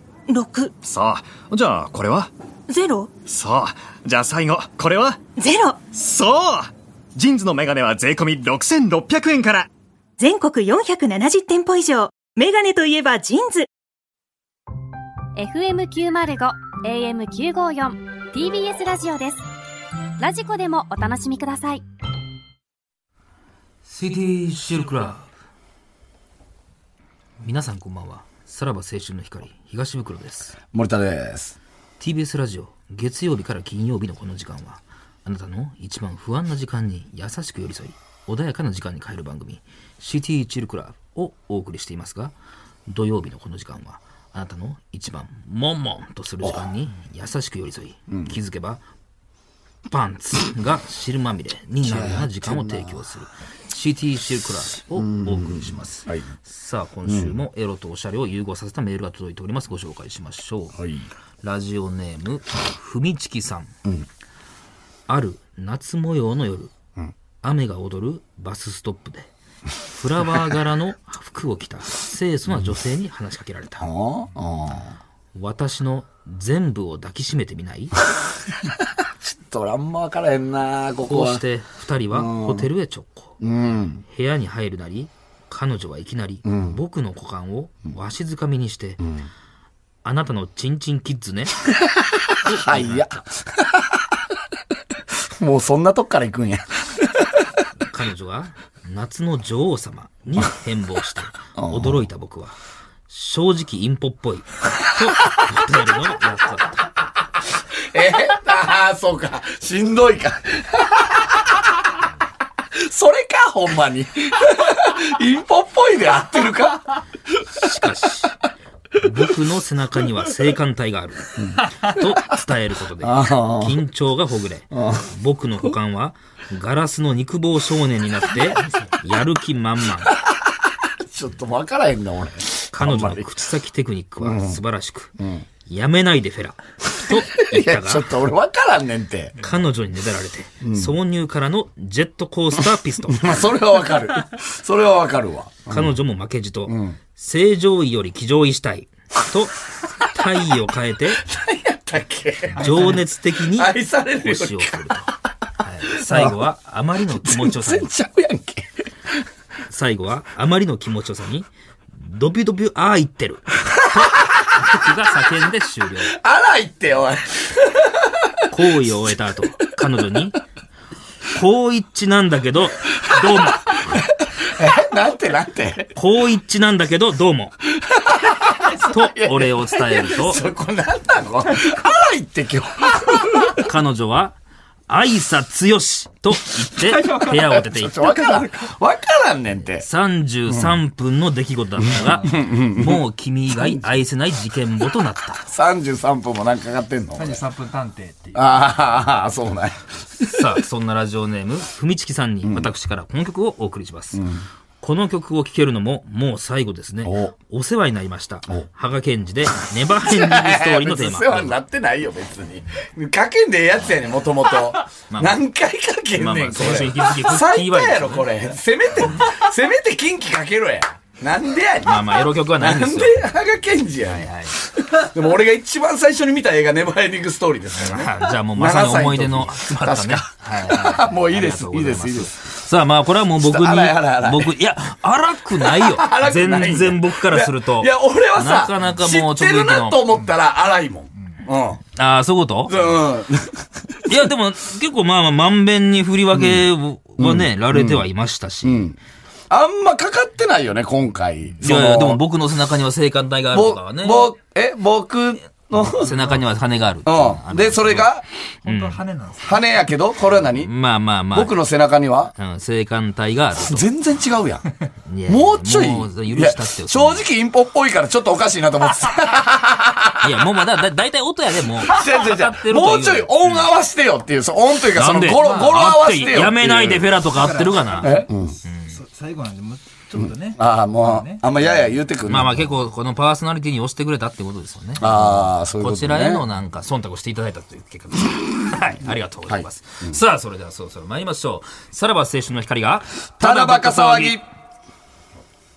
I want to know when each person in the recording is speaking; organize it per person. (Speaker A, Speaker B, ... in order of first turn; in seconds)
Speaker A: 0.3-0.7, 2.7-3.1, 5.4-5.8, 10.2-13.7
Speaker B: 0.8-2.3, 3.3-5.2, 5.9-9.7
Speaker C: 15.4-19.4, 20.2-21.8
Speaker D: 23.9-25.3, 27.4-30.6, 32.0-42.3, 42.9-48.8, 49.9-60.8, 61.4-63.7, 65.1-66.7, 67.4-69.3, 69.8-73.9, 75.3-78.0, 81.0-83.4, 84.1-89.0, 90.0-91.6, 92.4-93.2, 97.9-102.6, 103.1-106.9, 117.5-118.3, 119.0-130.1, 132.7-135.1, 135.7-138.1, 139.4-143.4, 145.7-149.6, 150.1-151.2, 152.6-157.9, 159.7-166.2, 168.5-170.4, 171.3-173.8, 175.9-177.6, 178.7-180.4, 183.6-184.4, 184.9-188.4, 189.8-195.4, 200.2-204.2, 204.8-211.6, 215.1-215.4, 216.1-218.3, 221.8-223.3, 224.0-224.6, 227.8-240.1, 242.0-243.0, 244.1-248.9, 251.6-254.3, 255.8-258.1, 258.6-259.0, 260.6-261.6, 262.4-263.9, 265.1-267.2, 270.2-273.6, 274.9-279.0, 282.2-294.4
Speaker E: 30.7-31.6, 48.1-48.4, 51.8-53.0, 55.0-56.3, 57.1-57.4, 60.8-61.1, 73.8-74.9, 79.2-81.4, 82.1-82.7, 83.4-84.0, 86.5-86.8, 89.0-89.3, 92.5-93.8, 95.4-96.8, 101.6-102.0, 107.9-111.4, 112.8-117.4, 121.4-121.6, 123.0-123.8, 124.7-125.1, 131.1-133.3, 134.2-134.6, 135.2-135.4, 137.0-139.4, 140.6-140.9, 143.1-145.9, 146.7-147.0, 151.2-155.1, 155.9-156.4, 157.2-158.7, 166.1-167.9, 173.8-175.9, 178.0-183.6, 187.5-189.9, 190.5-190.7, 192.2-193.0, 195.4-197.4, 198.3-200.3, 202.4-202.7, 204.1-204.4, 207.0-207.3, 210.0-232.5, 233.4-234.5, 235.6-241.8, 242.7-244.1, 246.3-248.0, 248.6-249.0, 249.5-252.2, 253.5-256.2, 257.1-258.3, 259.4-260.7, 261.3-262.3, 263.6-264.7, 265.3-270.6, 271.9-277.2, 278.0-278.6, 280.2-282.7, 285.0-286.4, 289.5-290.2, 293.4-294.4
Speaker F: 152.6-153.1, 186.8-187.6, 191.9-192.4, 197.1-198.7, 256.1-256.4, 258.6-259.6, 275.4-275.7, 277.3-278.3, 278.9-282.0